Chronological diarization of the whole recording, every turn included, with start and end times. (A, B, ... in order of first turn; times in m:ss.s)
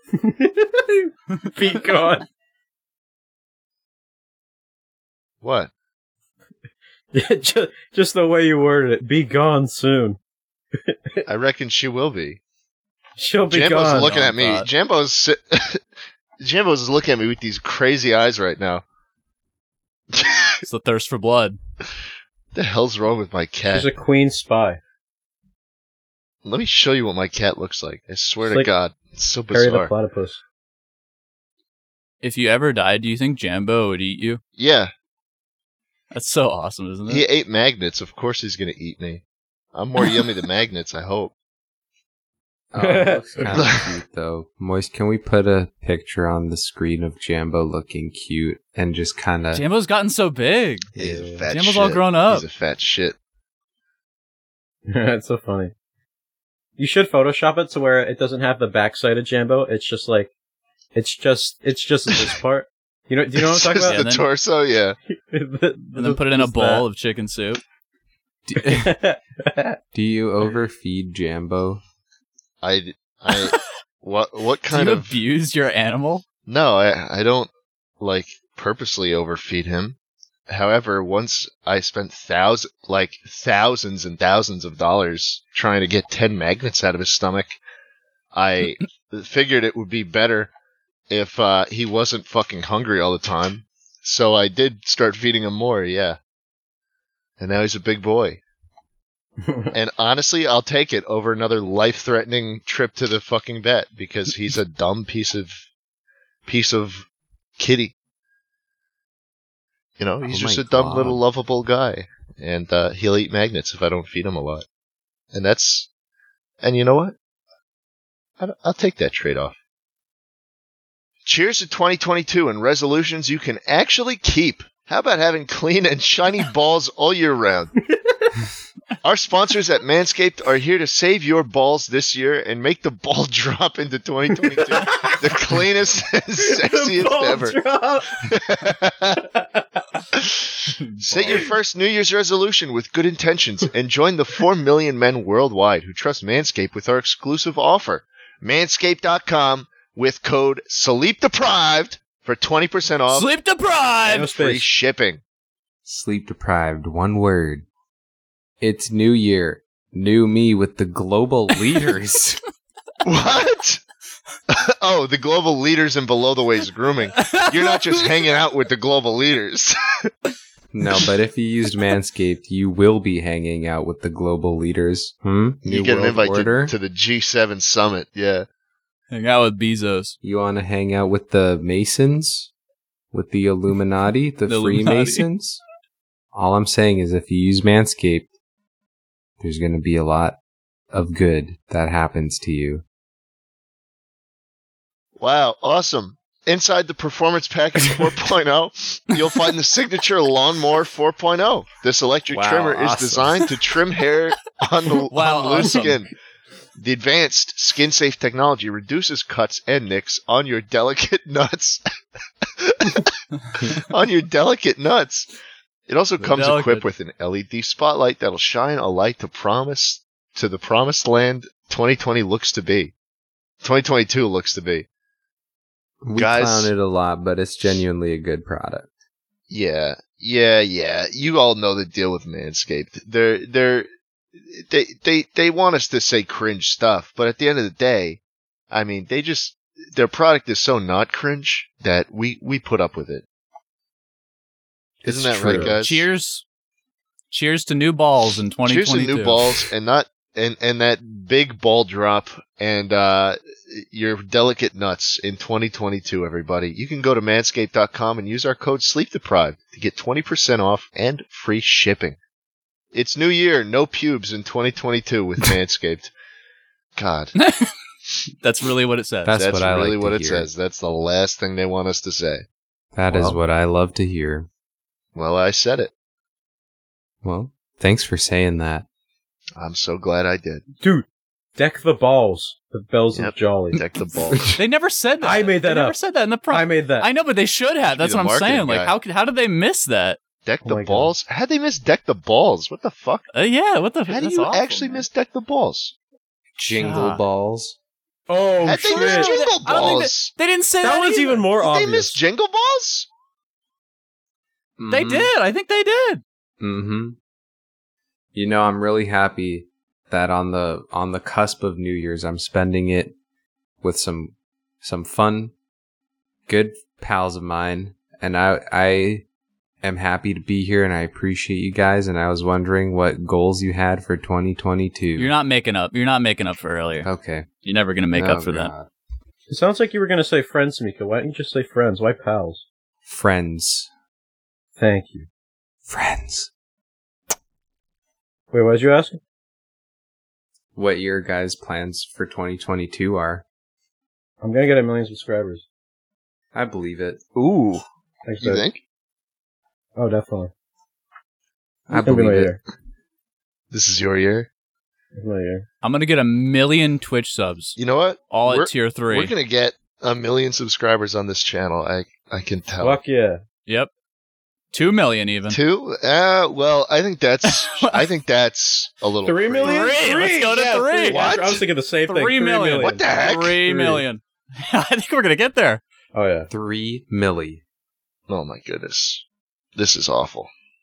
0:00.2-0:02.3 A
0:05.4-0:05.7 B
0:07.1-0:10.2 A
0:10.8-0:11.2 A
0:11.2-0:12.4 B
0:13.2-0:14.1 A
0:13.5-0:15.8 B
0:13.9-0:14.7 C
0:16.4-0:18.8 B
0:20.1-0:20.6 B
0:20.6-0:21.6 C
0:22.5-0:23.9 B
0:23.7-0:24.8 A
0:26.4-0:29.9 B
0:28.4-0:28.7 A
0:29.5-0:30.4 A
0:32.2-0:34.4 C
0:34.6-0:34.9 B
0:36.1-0:37.2 C
0:37.1-0:41.3 B
0:42.7-0:49.6 D
0:42.8-0:43.5 A
0:43.5-0:43.9 B
0:49.5-0:50.9 C
0:51.0-0:51.2 D
0:51.0-0:53.2 B
0:51.1-0:51.4 A
0:51.5-0:52.4 C
0:54.9-0:55.7 A
0:56.8-1:00.3 A
1:00.9-1:04.0 A
1:03.4-1:05.0 B
1:03.8-1:04.3 C
1:05.1-1:06.8 A
1:05.9-1:07.6 C
1:08.5-1:09.0 D
1:08.6-1:09.8 A
1:09.9-1:11.8 D
1:12.6-1:15.2 B
1:13.3-1:13.6 C
1:14.7-1:16.2 C
1:16.4-1:20.0 B
1:20.5-1:27.6 B
1:28.3-1:30.5 B
1:31.1-1:36.2 B
1:37.4-1:38.4 B
1:39.4-1:39.7 A
1:39.7-1:45.6 B
1:46.5-1:47.1 B
1:47.6-1:47.9 B
1:50.0-1:54.6 B
1:50.2-1:51.2 D
1:55.3-1:55.9 B
1:56.6-1:57.1 B
1:58.4-1:59.6 B
2:01.2-2:07.7 B
2:07.8-2:08.4 A
2:09.0-2:17.6 B
2:14.4-2:15.2 A
2:16.4-2:18.2 A
2:18.2-2:19.2 B
2:19.2-2:19.6 A
2:20.1-2:33.3 B
2:21.1-2:21.4 C
2:33.1-2:34.3 C
2:34.0-2:34.7 A
2:34.1-2:35.2 B
2:35.8-2:37.6 D
2:38.6-2:42.4 D
2:43.0-2:43.8 B
2:44.5-2:50.1 B
2:47.2-2:48.2 C
2:50.7-2:56.7 D
2:55.6-2:58.5 B
2:59.1-3:00.2 C
3:00.2-3:02.5 D
3:03.1-3:05.6 D
3:04.5-3:05.3 C
3:06.3-3:08.3 D
3:09.4-3:10.4 D
3:10.9-3:12.8 D
3:15.2-3:26.1 B
3:22.3-3:23.4 D
3:25.1-3:26.0 C
3:26.8-3:31.8 B
3:32.4-3:35.3 B
3:35.9-3:42.9 B
3:36.2-3:36.8 C
3:43.6-3:44.8 B
3:46.0-3:48.9 D
3:46.2-3:46.7 B
3:49.5-3:58.2 B
3:58.7-4:03.2 B
4:05.0-4:05.8 D
4:05.0-4:06.0 B
4:05.6-4:06.4 C
4:07.3-4:09.7 C
4:08.6-4:22.2 B
4:22.9-4:26.1 B
4:27.0-4:27.3 B
4:27.4-4:27.7 C
4:28.4-4:29.4 C
4:29.2-4:30.5 D
4:29.4-4:32.4 B
4:32.9-4:34.5 D
4:33.1-4:33.4 B
4:35.1-4:35.9 B
4:37.2-4:38.8 D
4:39.6-4:40.6 B
4:40.8-4:43.8 A
4:43.1-4:44.5 B
4:44.4-4:50.2 C
4:45.2-4:46.0 A
4:46.5-4:47.1 A
4:47.8-4:48.9 B
4:50.4-4:53.3 B
4:50.6-4:51.1 A
4:53.3-4:55.0 C
4:54.1-4:55.9 B
4:56.6-4:57.8 D
4:56.7-4:57.2 C
4:58.3-4:59.4 A
4:58.6-5:00.3 B
4:58.9-5:01.5 C
5:00.8-5:02.2 A
5:01.6-5:03.1 B
5:04.8-5:05.3 D
5:04.9-5:06.2 C
5:06.6-5:07.2 D
5:08.3-5:13.1 D
5:13.8-5:15.5 D
5:16.5-5:19.2 D
5:19.8-5:25.3 D
5:25.2-5:27.1 C
5:27.0-5:27.5 D
5:27.6-5:28.7 C
5:28.1-5:28.9 D
5:29.5-5:32.6 A
5:33.0-5:33.9 D
5:34.8-5:35.3 A
5:35.9-5:36.5 D
5:38.5-5:39.2 A
5:40.7-5:43.4 D
5:44.4-5:45.6 A
5:46.5-5:47.2 D
5:47.3-5:47.8 B
5:48.2-5:48.6 A
5:48.4-5:48.8 B
5:50.0-5:50.5 A
5:51.9-5:52.5 D
5:51.9-5:52.6 A
5:53.7-5:54.5 B
5:55.1-5:55.6 A
5:55.8-5:57.8 C
5:57.8-6:03.0 B
5:58.3-5:59.3 C
6:02.8-6:03.4 A
6:04.7-6:05.6 C
6:05.5-6:09.9 B
6:07.4-6:08.1 C
6:09.2-6:13.0 A
6:09.6-6:11.4 C
6:11.0-6:11.6 B
6:12.1-6:15.8 C
6:12.8-6:13.6 B
6:13.6-6:14.0 A
6:16.1-6:16.5 A
6:16.5-6:17.6 D
6:18.3-6:19.2 B
6:19.8-6:20.5 B